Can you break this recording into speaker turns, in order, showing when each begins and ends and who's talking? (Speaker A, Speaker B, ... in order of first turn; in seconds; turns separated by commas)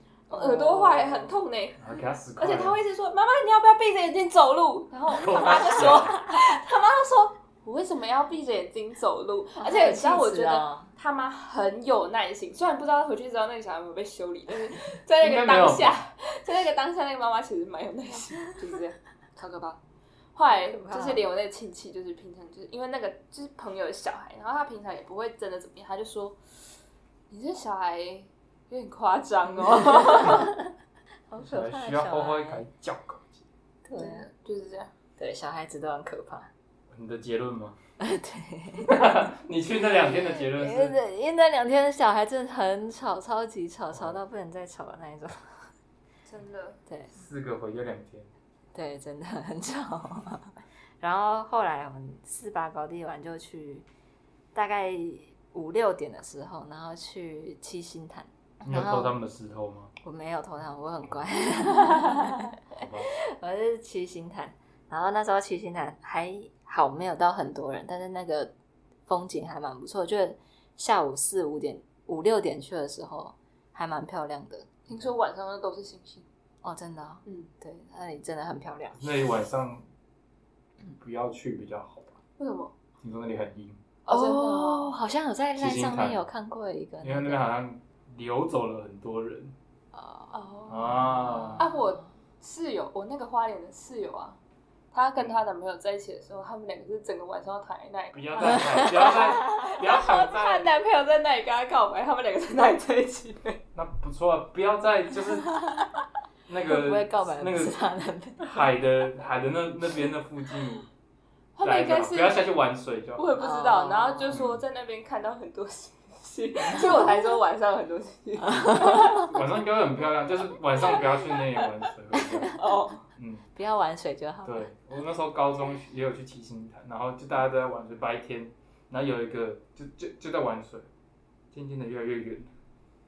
Speaker A: 0.3-1.9, Speaker B: 0.3-1.4, Speaker C: 1.8-2.8, Speaker A: 2.4-19.8, Speaker C: 5.1-6.2, Speaker B: 9.6-10.9, Speaker C: 15.2-16.0, Speaker A: 20.3-26.4, Speaker B: 20.6-21.2, Speaker A: 27.3-30.6, Speaker B: 29.8-30.6, Speaker B: 31.3-32.6, Speaker C: 31.4-33.5, Speaker B: 33.8-34.3, Speaker A: 34.0-34.9, Speaker B: 35.2-36.5, Speaker C: 36.9-37.8, Speaker B: 38.0-39.1, Speaker C: 38.8-41.0, Speaker B: 39.8-45.7, Speaker C: 43.9-44.2, Speaker A: 46.2-46.8, Speaker B: 46.9-47.1, Speaker C: 47.1-48.3, Speaker B: 48.7-53.9, Speaker B: 54.5-59.1, Speaker C: 58.6-59.9, Speaker B: 60.0-62.6, Speaker C: 62.7-63.1, Speaker B: 63.1-68.5, Speaker B: 69.1-74.7, Speaker A: 74.9-76.2, Speaker B: 76.6-79.3, Speaker C: 79.0-79.8, Speaker C: 80.9-82.2, Speaker A: 82.4-82.7, Speaker C: 83.0-83.8, Speaker A: 84.0-84.9, Speaker B: 84.1-87.5, Speaker C: 85.6-86.2, Speaker C: 87.0-89.5, Speaker B: 90.0-90.3, Speaker A: 90.3-90.9, Speaker C: 90.7-91.7, Speaker B: 90.8-92.1, Speaker A: 91.6-94.4, Speaker A: 94.9-103.6, Speaker C: 98.1-100.7, Speaker B: 98.4-99.7, Speaker C: 103.7-105.6, Speaker C: 106.5-107.8, Speaker B: 106.7-108.6, Speaker C: 108.4-110.9, Speaker A: 111.5-112.4, Speaker C: 111.6-113.3, Speaker A: 113.2-119.3, Speaker B: 113.4-114.3, Speaker C: 114.3-114.6, Speaker B: 116.6-117.0, Speaker B: 118.4-119.3, Speaker C: 119.2-122.5, Speaker A: 122.5-123.0, Speaker C: 123.1-123.5, Speaker B: 123.5-124.7, Speaker C: 124.4-130.9, Speaker C: 131.5-132.5